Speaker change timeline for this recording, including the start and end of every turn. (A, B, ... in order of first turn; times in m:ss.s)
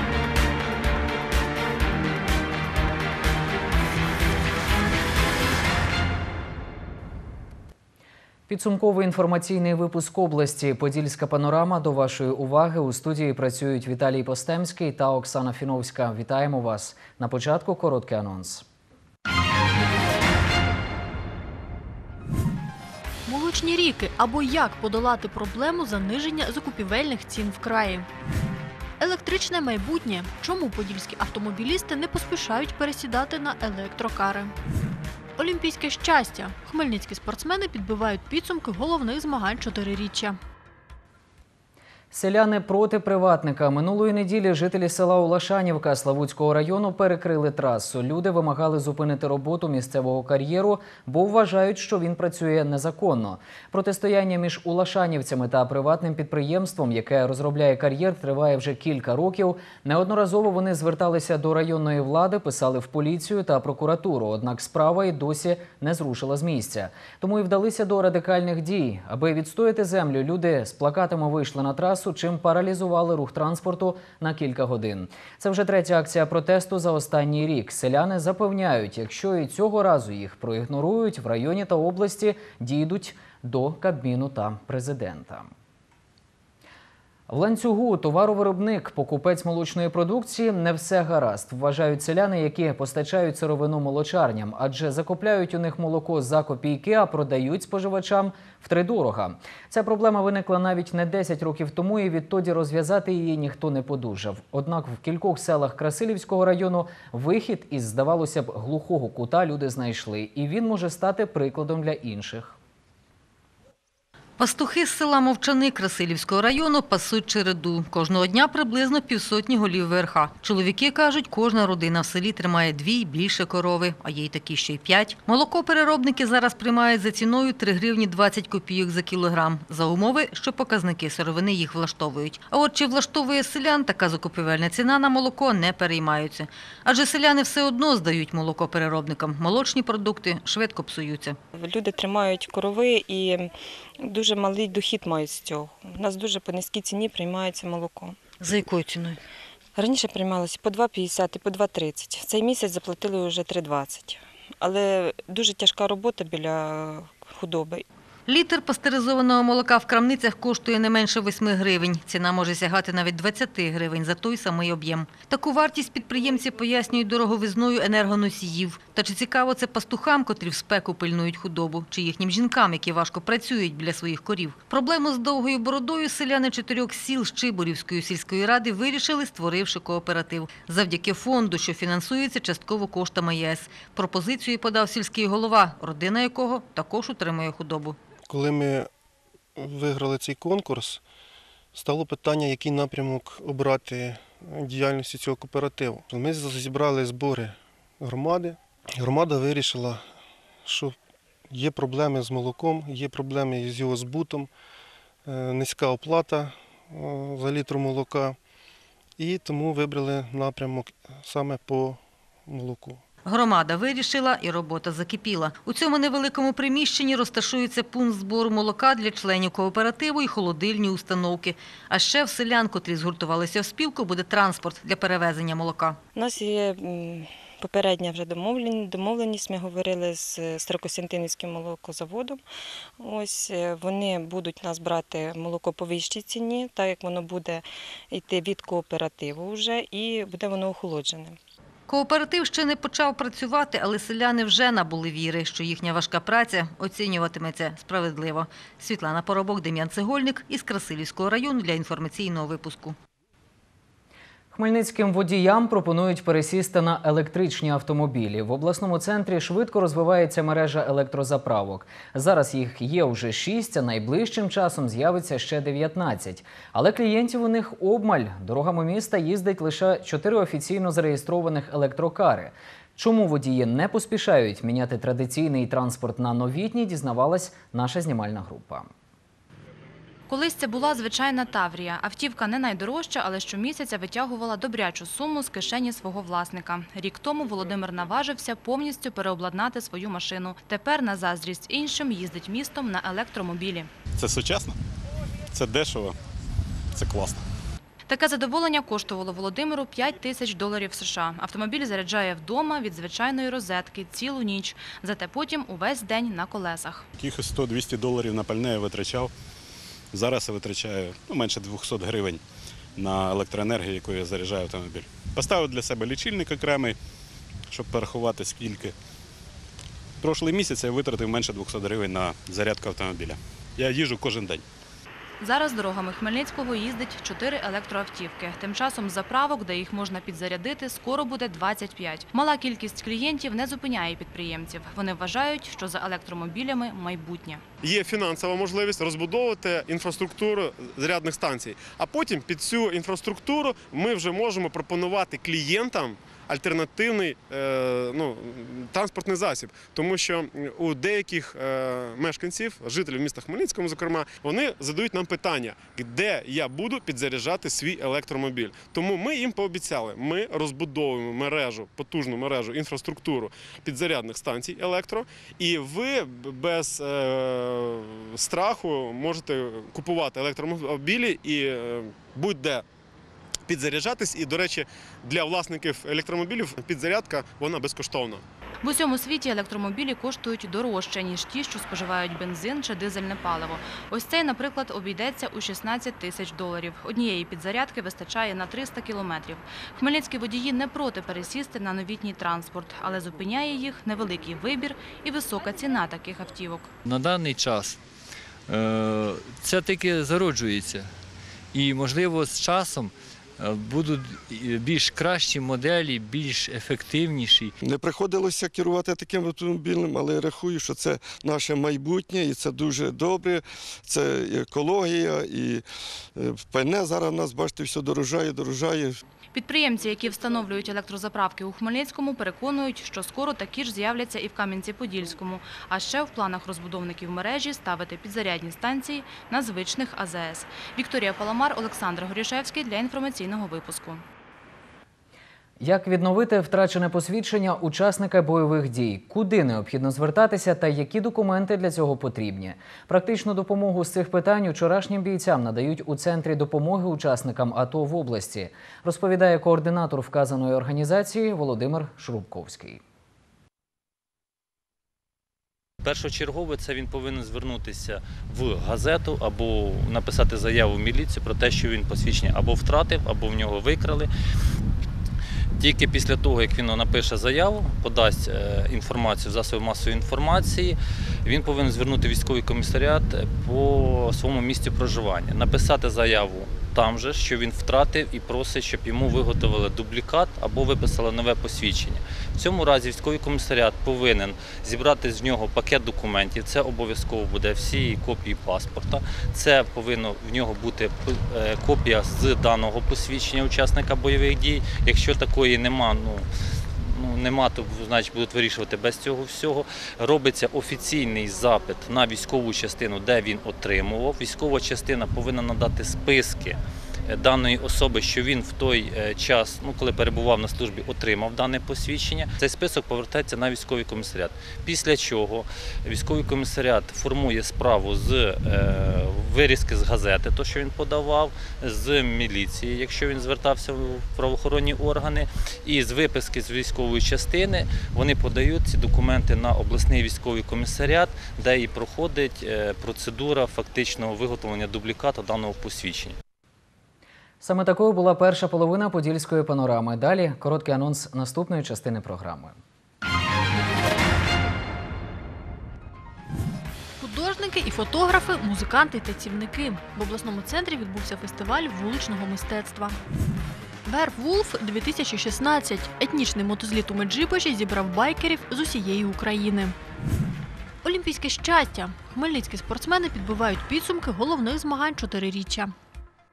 0:08.5-0:18.6 A
0:23.3-0:28.1 B
0:29.0-0:34.5 B
0:35.4-0:40.4 B
0:42.1-1:25.5 A
1:27.3-1:52.6 A
1:54.4-2:21.4 C
2:21.5-2:28.3 D
2:28.4-2:29.2 C
2:29.8-2:37.8 D
2:38.3-3:08.0 C
3:08.3-3:08.9 E
3:09.6-3:11.0 E
3:11.7-3:20.0 E
3:20.6-3:20.9 E
3:21.5-3:24.5 E
3:25.2-3:28.4 E
3:29.2-3:33.0 E
3:33.2-3:46.0 C
3:46.1-3:52.4 D
3:53.0-4:01.4 D
4:01.9-4:13.0 C
4:14.5-4:38.9 A
4:40.3-4:53.9 F
4:54.2-4:54.8 G
4:55.5-4:56.2 G
4:56.9-4:57.4 G
4:58.1-5:07.1 F
5:07.2-5:09.3 G
5:10.1-5:12.4 G
5:13.0-5:17.0 G
5:17.7-5:18.9 G
5:20.2-5:24.6 G
5:25.4-5:37.6 F
5:37.8-6:12.8 H
6:13.7-6:18.4 H
6:18.8-6:36.9 F
6:37.0-6:38.0 I
6:38.7-6:41.1 I
6:41.7-6:47.7 I
6:47.8-6:55.8 J
6:56.4-6:59.2 J
6:59.5-7:14.2 F
7:15.8-7:33.0 A
7:36.0-7:44.3 K
7:45.8-8:16.5 K
8:17.0-8:56.4 K
8:57.6-9:02.8 A
9:07.2-9:13.2 B
9:14.0-9:20.0 B
9:21.0-9:25.9 B